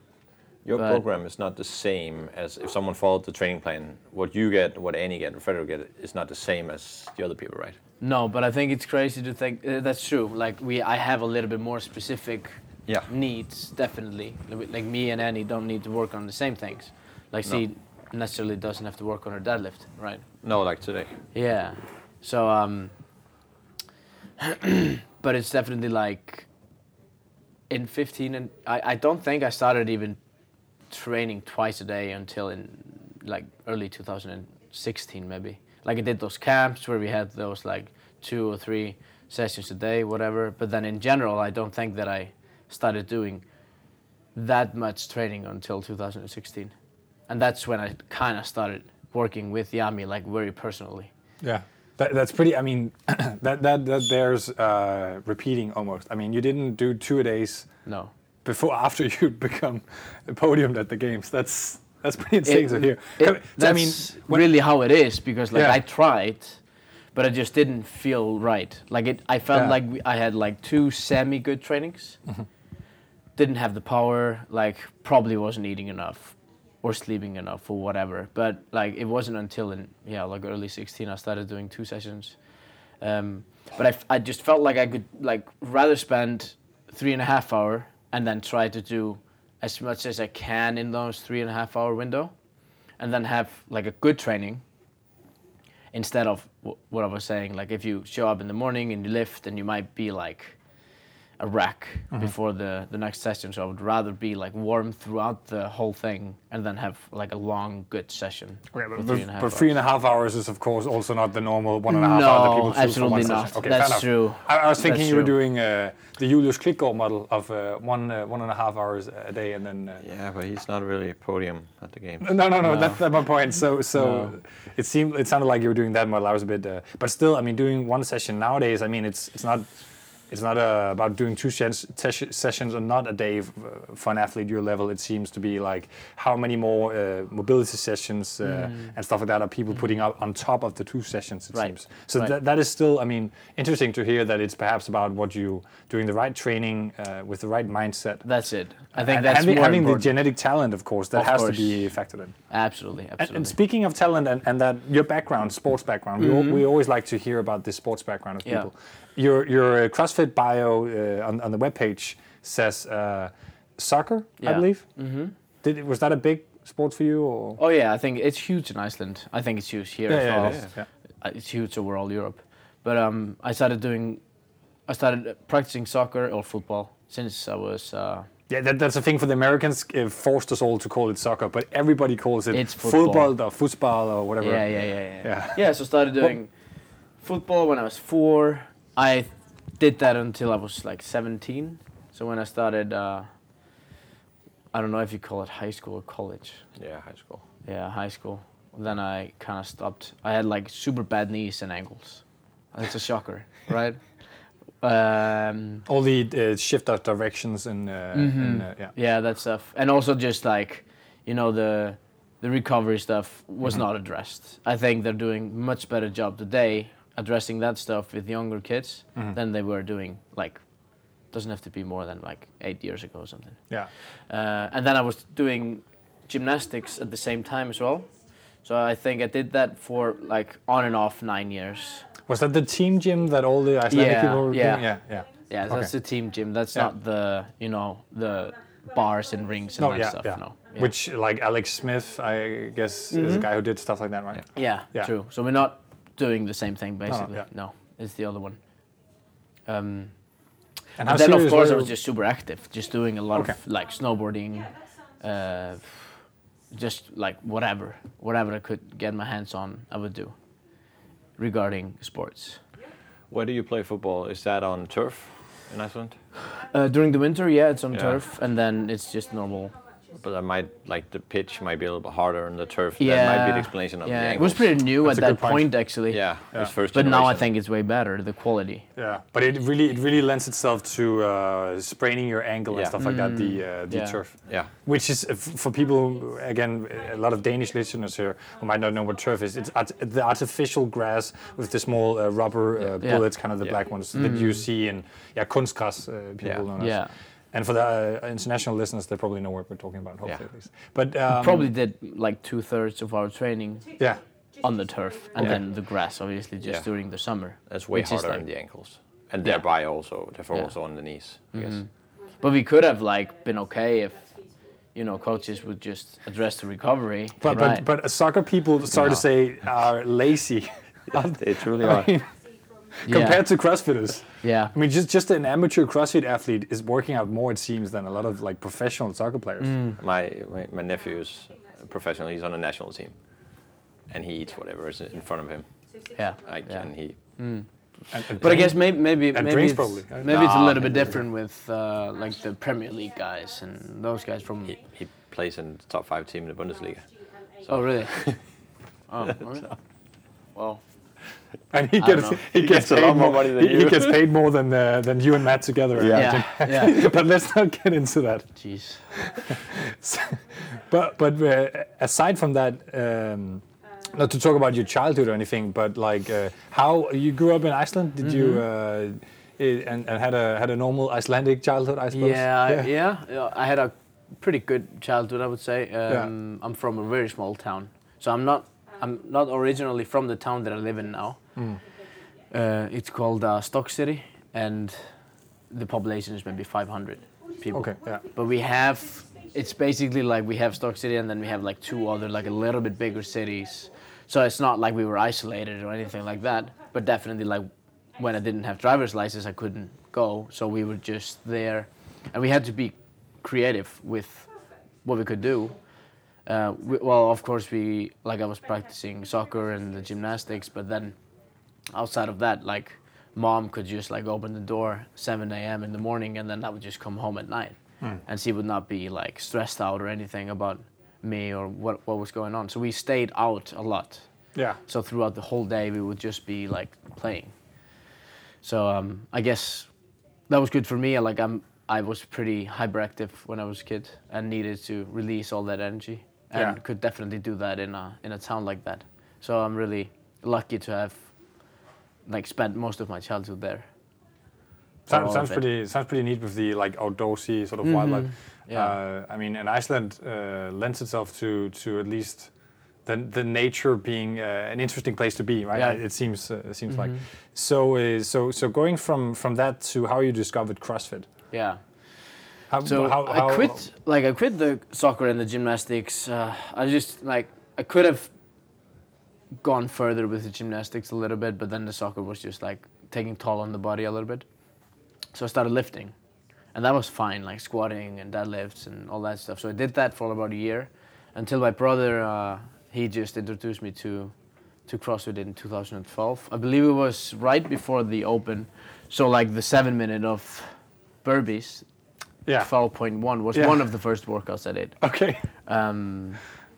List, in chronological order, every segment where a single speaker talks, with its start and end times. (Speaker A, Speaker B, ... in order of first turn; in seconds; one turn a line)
Speaker A: 0.7-7.8
Speaker B: 0.8-1.0
Speaker B: 8.0-20.2
Speaker A: 20.4-21.1
Speaker B: 21.3-22.9
Speaker B: 24.4-26.5
Speaker B: 27.7-30.2
Speaker B: 30.9-43.5
Speaker B: 44.4-46.7
Speaker B: 47.3-51.1
Speaker C: 51.4-57.7
Speaker B: 57.9-58.1
Speaker C: 58.5-64.5
Speaker B: 62.5-66.6
Speaker C: 65.5-65.8
Speaker B: 67.2-72.2
Speaker B: 73.4-82.4
Speaker B: 83.0-92.3
Speaker B: 93.0-94.6
Speaker B: 95.9-100.6
Speaker B: 101.4-109.7
Speaker C: 108.7-120.0
Speaker B: 111.9-115.3
Speaker A: 120.0-122.3
Speaker C: 122.2-129.7
Speaker B: 122.6-123.0
Speaker B: 124.0-124.3
Speaker C: 130.3-148.3
Speaker B: 138.5-138.9
Speaker B: 141.5-142.3
Speaker B: 148.2-150.1
Speaker C: 148.9-152.3
Speaker B: 151.1-151.9
Speaker B: 152.5-153.5
Speaker C: 153.2-164.8
Speaker B: 156.2-156.6
Speaker B: 164.4-165.3
Speaker C: 165.6-167.6
Speaker B: 167.6-170.7
Speaker C: 170.1-170.9
Speaker B: 171.2-174.2
Speaker B: 174.9-178.3
Speaker C: 178.5-185.6
Speaker B: 182.5-183.3
Speaker B: 184.4-186.5
Speaker B: 187.2-193.3
Speaker B: 194.7-196.7
Speaker A: 196.8-197.4
Speaker B: 197.7-204.0
Speaker B: 204.8-205.9
Speaker C: 205.9-208.9
Speaker B: 208.1-220.6
Speaker B: 221.3-223.6
Speaker B: 224.3-228.1
Speaker B: 228.6-232.1
Speaker C: 232.3-235.9
Speaker B: 233.9-234.9
Speaker B: 235.5-240.9
Speaker C: 239.8-245.1
Speaker B: 243.1-243.5
Speaker B: 244.5-248.6
Speaker C: 247.1-247.4
Speaker B: 249.7-250.1
Speaker C: 251.0-251.9
Speaker B: 251.1-256.1
Speaker B: 256.7-260.3
Speaker B: 261.4-262.6
Speaker A: 263.3-266.2
Speaker B: 266.5-269.7
Speaker A: 267.9-268.2
Speaker A: 270.2-274.8
Speaker B: 273.0-276.3
Speaker C: 275.0-275.8
Speaker A: 276.1-277.5
Speaker B: 276.9-278.9
Speaker C: 279.0-301.7
Speaker A: 282.7-283.0
Speaker B: 283.0-284.2
Speaker A: 284.5-284.7
Speaker B: 293.0-293.3
Speaker B: 294.1-294.7
Speaker B: 296.8-297.1
Speaker B: 301.3-304.0
Speaker B: 304.6-308.4
Speaker A: 307.7-311.8
Speaker B: 311.5-311.9
Speaker B: 312.4-314.3
Speaker B: 314.9-317.9
Speaker C: 317.4-322.3
Speaker A: 321.4-322.1
Speaker B: 323.1-323.5
Speaker C: 323.1-329.8
Speaker B: 324.4-324.7
Speaker B: 329.6-330.0
Speaker A: 330.0-333.1
Speaker A: 334.1-335.7
Speaker B: 336.1-337.7
Speaker A: 336.4-337.2
Speaker C: 338.1-340.7
Speaker B: 338.3-344.8
Speaker A: 340.2-341.1
Speaker A: 344.7-347.1
Speaker A: 347.6-348.4
Speaker B: 347.7-348.3
Speaker B: 349.1-349.8
Speaker B: 350.6-350.8
Speaker C: 351.7-358.5
Speaker B: 352.0-352.4
Speaker A: 352.5-354.2
Speaker A: 356.0-356.4
Speaker B: 356.1-357.1
Speaker B: 358.6-359.0
Speaker C: 359.1-372.9
Speaker B: 368.2-368.6
Speaker B: 372.1-381.4
Speaker B: 382.5-385.0
Speaker B: 385.7-404.5
Speaker C: 387.7-388.2
Speaker B: 405.1-405.8
Speaker B: 406.5-411.1
Speaker B: 411.9-424.3
Speaker B: 424.9-427.5
Speaker B: 428.6-429.9
Speaker B: 430.5-441.3
Speaker B: 442.3-443.9
Speaker C: 445.1-452.5
Speaker B: 445.1-445.6
Speaker B: 447.8-448.9
Speaker C: 453.1-461.3
Speaker B: 455.8-456.0
Speaker B: 456.9-457.2
Speaker B: 461.5-461.8
Speaker C: 462.7-463.8
Speaker B: 462.8-468.3
Speaker B: 469.6-474.4
Speaker B: 475.3-476.1
Speaker B: 476.7-484.3
Speaker B: 484.9-491.9
Speaker B: 492.6-495.0
Speaker C: 493.5-493.8
Speaker C: 495.0-495.4
Speaker B: 495.6-496.4